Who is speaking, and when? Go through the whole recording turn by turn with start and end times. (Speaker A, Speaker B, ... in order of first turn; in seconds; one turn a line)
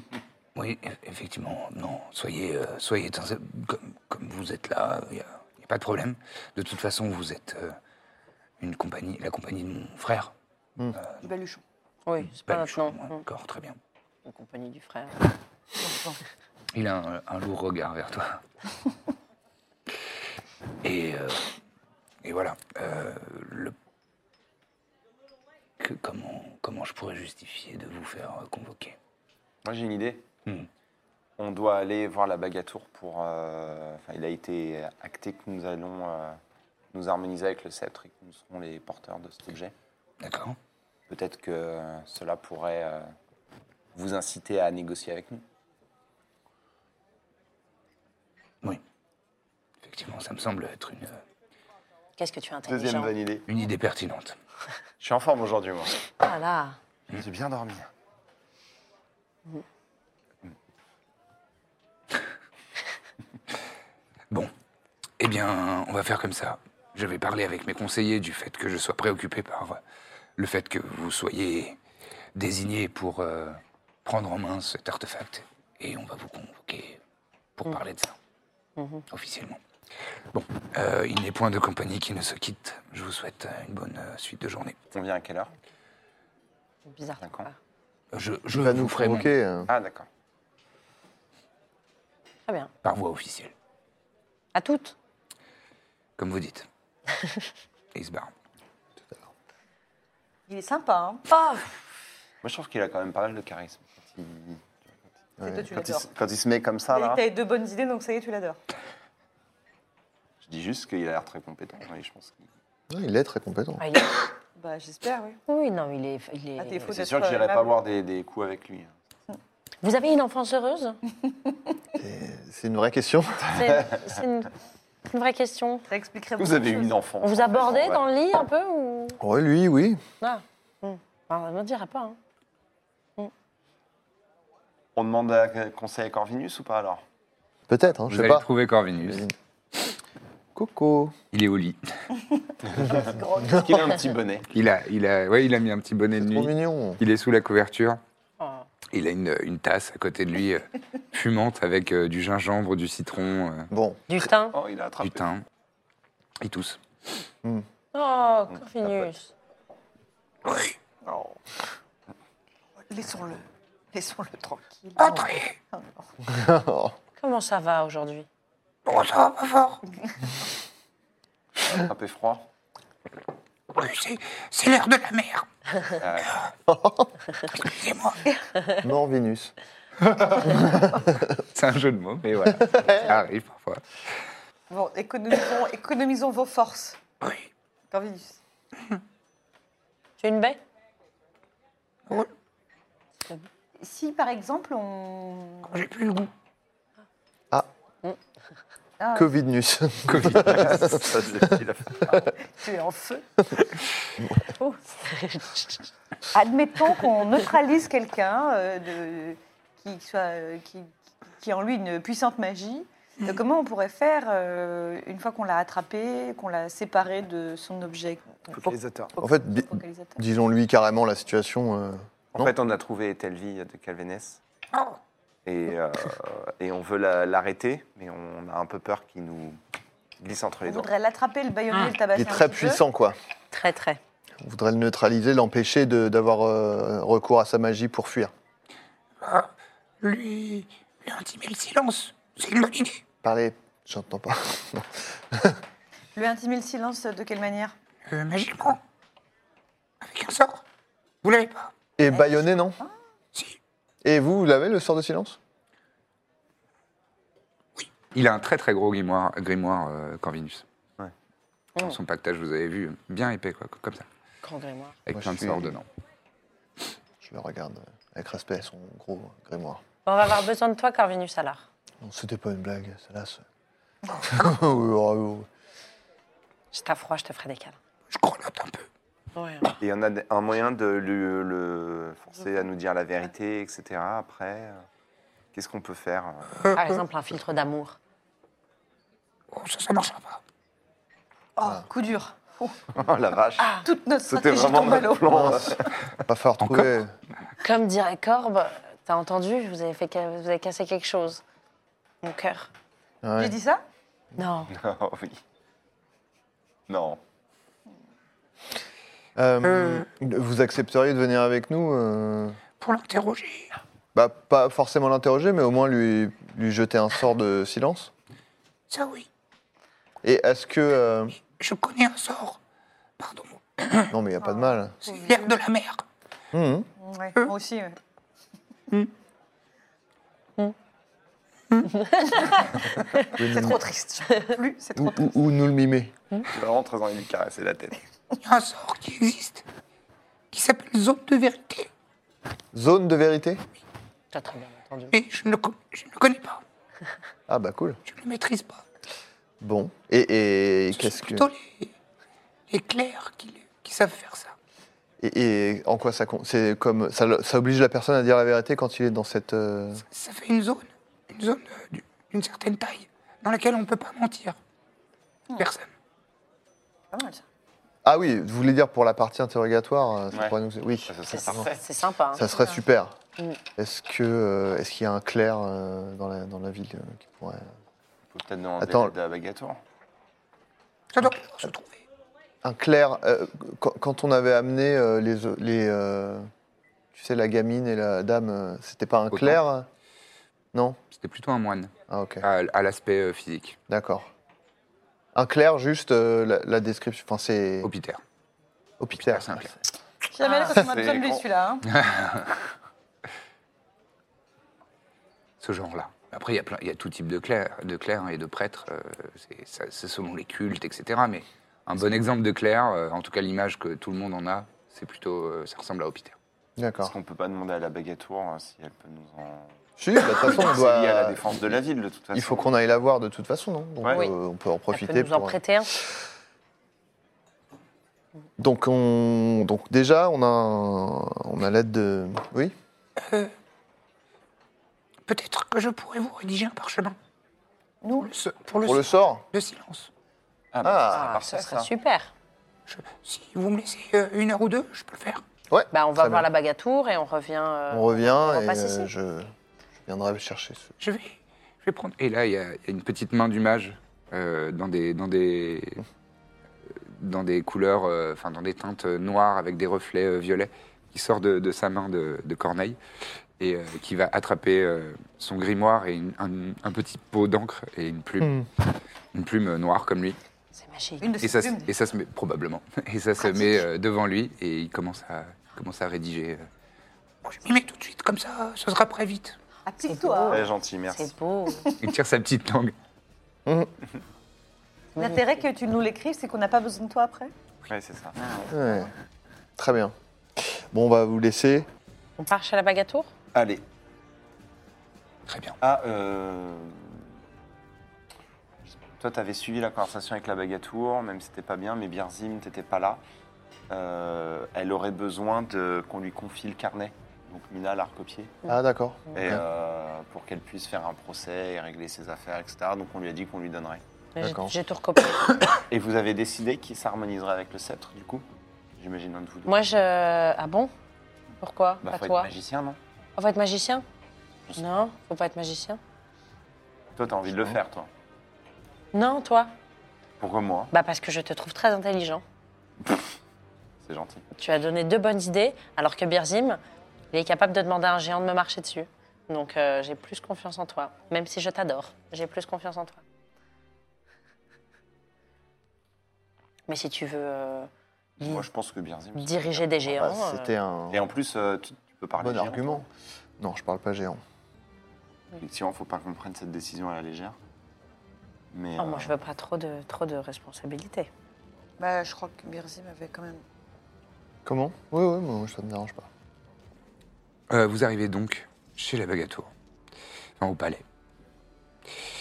Speaker A: 0.6-7.8
Speaker A: 8.6-10.3
Speaker B: 11.2-11.6
Speaker C: 12.1-13.2
Speaker A: 12.3-13.8
Speaker C: 14.2-15.2
Speaker B: 15.8-16.2
Speaker A: 16.7-18.4
Speaker A: 20.8-21.5
Speaker A: 22.2-23.8
Speaker A: 25.8-29.0
Speaker D: 29.6-30.2
Speaker D: 31.4-36.4
Speaker D: 36.9-39.7
Speaker A: 40.2-40.6
Speaker D: 41.1-43.1
Speaker D: 43.9-45.5
Speaker A: 49.8-51.2
Speaker C: 52.2-53.1
Speaker D: 52.7-53.5
Speaker A: 53.5-54.4
Speaker D: 55.0-56.0
Speaker C: 56.2-56.8
Speaker D: 57.1-57.9
Speaker A: 65.2-69.8
Speaker A: 70.4-71.8
Speaker A: 72.3-77.0
Speaker A: 77.6-78.2
Speaker C: 78.8-79.0
Speaker A: 79.1-79.6
Speaker A: 80.3-84.8
Speaker D: 84.9-85.5
Speaker C: 86.9-87.5
Speaker D: 87.2-87.5
Speaker A: 88.1-89.3
Speaker E: 88.5-89.7
Speaker D: 89.7-90.1
Speaker A: 92.8-93.5
Speaker C: 94.5-95.0
Speaker A: 96.2-96.7
Speaker A: 97.9-98.3
Speaker E: 99.0-99.3
Speaker B: 100.5-101.4
Speaker D: 102.4-105.0
Speaker E: 105.4-105.9
Speaker B: 105.4-106.1
Speaker D: 106.0-107.2
Speaker B: 106.9-108.6
Speaker D: 110.4-112.5
Speaker E: 112.9-113.8
Speaker C: 113.8-114.1
Speaker B: 114.6-115.4
Speaker C: 115.5-116.9
Speaker B: 116.6-117.8
Speaker D: 116.8-119.0
Speaker C: 119.8-121.0
Speaker E: 122.0-123.7
Speaker C: 123.5-124.5
Speaker D: 123.6-123.9
Speaker C: 125.0-125.9
Speaker B: 125.9-126.9
Speaker D: 126.4-128.0
Speaker C: 127.2-129.2
Speaker E: 129.2-130.0
Speaker C: 130.2-132.2
Speaker D: 134.9-137.0
Speaker E: 137.7-138.5
Speaker A: 138.1-139.2
Speaker E: 139.0-139.3
Speaker E: 140.6-141.2
Speaker A: 141.3-142.1
Speaker B: 142.7-144.1
Speaker D: 142.8-144.5
Speaker A: 144.5-148.0
Speaker E: 146.2-147.0
Speaker C: 148.4-148.7
Speaker A: 148.9-153.7
Speaker E: 153.7-154.0
Speaker C: 154.1-154.6
Speaker D: 154.5-155.3
Speaker A: 155.0-155.4
Speaker A: 156.4-156.8
Speaker C: 157.9-159.3
Speaker A: 160.5-160.7
Speaker B: 161.1-161.4
Speaker B: 162.8-166.1
Speaker A: 165.0-165.6
Speaker E: 166.3-166.9
Speaker C: 167.2-168.3
Speaker A: 168.9-169.8
Speaker D: 171.6-172.5
Speaker A: 173.7-175.5
Speaker D: 176.0-176.4
Speaker E: 176.7-177.1
Speaker A: 177.6-178.2
Speaker E: 178.8-179.5
Speaker A: 180.1-180.6
Speaker E: 180.9-181.3
Speaker A: 181.5-184.1
Speaker E: 182.7-183.0
Speaker B: 184.7-187.0
Speaker A: 187.2-187.5
Speaker B: 187.9-188.4
Speaker C: 190.2-190.6
Speaker B: 193.8-195.8
Speaker A: 195.7-196.3
Speaker B: 199.0-199.3
Speaker E: 199.1-200.9
Speaker A: 200.1-201.0
Speaker D: 200.2-202.3
Speaker B: 202.4-203.2
Speaker C: 204.6-205.6
Speaker B: 206.3-220.2
Speaker D: 218.5-219.1
Speaker E: 219.2-222.5
Speaker D: 222.3-224.4
Speaker D: 225.5-229.6
Speaker D: 230.2-230.9
Speaker B: 230.7-232.8
Speaker E: 232.2-233.2
Speaker C: 233.5-234.0
Speaker E: 234.4-238.3
Speaker A: 239.2-243.0
Speaker E: 243.2-245.6
Speaker B: 246.2-247.8
Speaker A: 248.1-248.8
Speaker A: 250.0-250.6
Speaker A: 251.2-251.7
Speaker E: 252.0-252.8
Speaker E: 254.0-255.4
Speaker A: 257.8-260.6
Speaker A: 261.8-264.1
Speaker C: 264.4-265.0
Speaker A: 265.1-265.9
Speaker E: 265.1-265.8
Speaker E: 267.2-269.8
Speaker C: 270.1-271.6
Speaker E: 272.0-273.4
Speaker E: 274.2-275.5
Speaker C: 276.7-277.8
Speaker A: 278.1-278.9
Speaker C: 279.4-279.7
Speaker D: 279.8-284.8
Speaker D: 285.5-286.6
Speaker C: 286.7-288.0
Speaker A: 289.5-290.4
Speaker B: 291.6-292.8
Speaker D: 292.9-296.1
Speaker B: 293.7-295.5
Speaker E: 295.3-297.1
Speaker A: 296.6-297.0
Speaker C: 297.6-301.4
Speaker C: 302.2-302.7
Speaker E: 303.2-303.6
Speaker B: 303.4-303.8
Speaker C: 304.4-304.7
Speaker D: 304.7-305.4
Speaker D: 306.9-307.2
Speaker E: 309.4-312.6
Speaker A: 309.7-310.1
Speaker A: 312.8-313.7
Speaker E: 314.1-318.1
Speaker A: 318.9-319.3
Speaker E: 320.2-321.4
Speaker A: 321.6-322.6
Speaker A: 323.2-324.1
Speaker E: 324.1-325.0
Speaker B: 325.1-325.5
Speaker A: 325.1-326.0
Speaker E: 326.5-326.9
Speaker B: 327.0-328.0
Speaker C: 332.0-332.3
Speaker B: 332.4-335.4
Speaker E: 333.4-333.8
Speaker E: 335.0-336.1
Speaker D: 336.4-338.0
Speaker A: 338.4-339.6
Speaker A: 340.5-341.9
Speaker E: 342.7-343.6
Speaker C: 344.3-345.2
Speaker A: 345.1-346.6
Speaker E: 347.5-348.0
Speaker A: 348.1-348.8
Speaker E: 349.6-351.5
Speaker A: 351.0-351.9
Speaker A: 352.7-354.6
Speaker E: 355.2-360.0
Speaker A: 360.1-364.6
Speaker A: 365.6-365.9
Speaker B: 367.1-367.4
Speaker E: 368.0-371.6
Speaker D: 370.3-371.8
Speaker C: 371.3-372.4
Speaker E: 372.3-373.2
Speaker E: 373.8-377.7
Speaker D: 378.3-379.8
Speaker E: 378.8-379.1
Speaker A: 381.1-382.0
Speaker E: 382.6-386.5
Speaker E: 387.1-389.9
Speaker A: 389.3-389.6
Speaker A: 391.1-391.9
Speaker E: 392.1-392.5
Speaker A: 392.4-393.8
Speaker E: 393.9-394.3
Speaker E: 395.4-397.9
Speaker A: 397.8-398.2
Speaker E: 399.0-399.7
Speaker A: 399.1-399.7
Speaker B: 400.3-401.9
Speaker C: 400.4-400.8
Speaker D: 400.8-401.4
Speaker A: 401.9-402.6
Speaker A: 405.6-416.4
Speaker E: 416.8-417.1
Speaker D: 417.1-422.7
Speaker E: 420.0-421.8
Speaker E: 422.3-426.1
Speaker C: 424.9-425.9
Speaker E: 428.6-432.8
Speaker A: 433.2-433.5
Speaker A: 435.3-437.2
Speaker B: 438.0-438.3
Speaker A: 438.2-440.1
Speaker E: 438.9-439.4
Speaker D: 440.7-441.9
Speaker E: 440.8-441.3
Speaker C: 441.1-442.3
Speaker A: 442.9-445.4
Speaker E: 445.7-446.5
Speaker C: 445.9-449.1
Speaker E: 447.9-449.5
Speaker E: 450.1-450.9
Speaker A: 451.0-456.0
Speaker A: 456.9-463.0
Speaker A: 463.6-468.6
Speaker E: 468.4-468.7
Speaker A: 469.3-470.4
Speaker C: 470.8-471.4
Speaker B: 471.2-471.9
Speaker A: 471.4-476.6
Speaker A: 477.4-479.6
Speaker B: 479.9-480.7
Speaker C: 480.0-481.9
Speaker D: 480.5-481.3
Speaker A: 482.0-482.9
Speaker E: 483.7-483.9
Speaker C: 485.2-485.6
Speaker B: 485.2-487.5
Speaker D: 487.9-488.4
Speaker B: 488.4-489.1
Speaker E: 488.7-489.1
Speaker E: 489.8-491.9
Speaker C: 492.4-493.3
Speaker D: 493.5-493.8
Speaker A: 495.5-495.8
Speaker D: 495.8-497.2
Speaker D: 499.2-503.2
Speaker D: 503.9-508.6
Speaker E: 508.7-509.6
Speaker D: 509.3-514.0
Speaker C: 514.4-515.6
Speaker E: 514.4-514.8
Speaker D: 515.9-518.5
Speaker D: 519.0-519.8
Speaker C: 519.7-520.9
Speaker C: 521.6-522.5
Speaker D: 522.0-523.0
Speaker C: 523.4-524.0
Speaker D: 524.7-525.0
Speaker C: 524.8-526.0
Speaker D: 527.2-528.1
Speaker C: 529.1-529.7
Speaker D: 530.4-530.9
Speaker C: 530.9-532.4
Speaker D: 534.0-534.4
Speaker C: 534.6-536.8
Speaker C: 537.3-543.2
Speaker C: 546.9-548.7
Speaker D: 548.4-550.2
Speaker C: 549.4-550.7
Speaker E: 550.1-551.2
Speaker D: 551.1-553.0
Speaker E: 552.4-553.1
Speaker E: 553.6-554.4
Speaker D: 555.5-557.6
Speaker D: 558.7-559.4
Speaker C: 559.0-561.3
Speaker B: 562.0-563.6
Speaker E: 564.6-566.3
Speaker A: 567.7-569.7
Speaker A: 570.6-571.0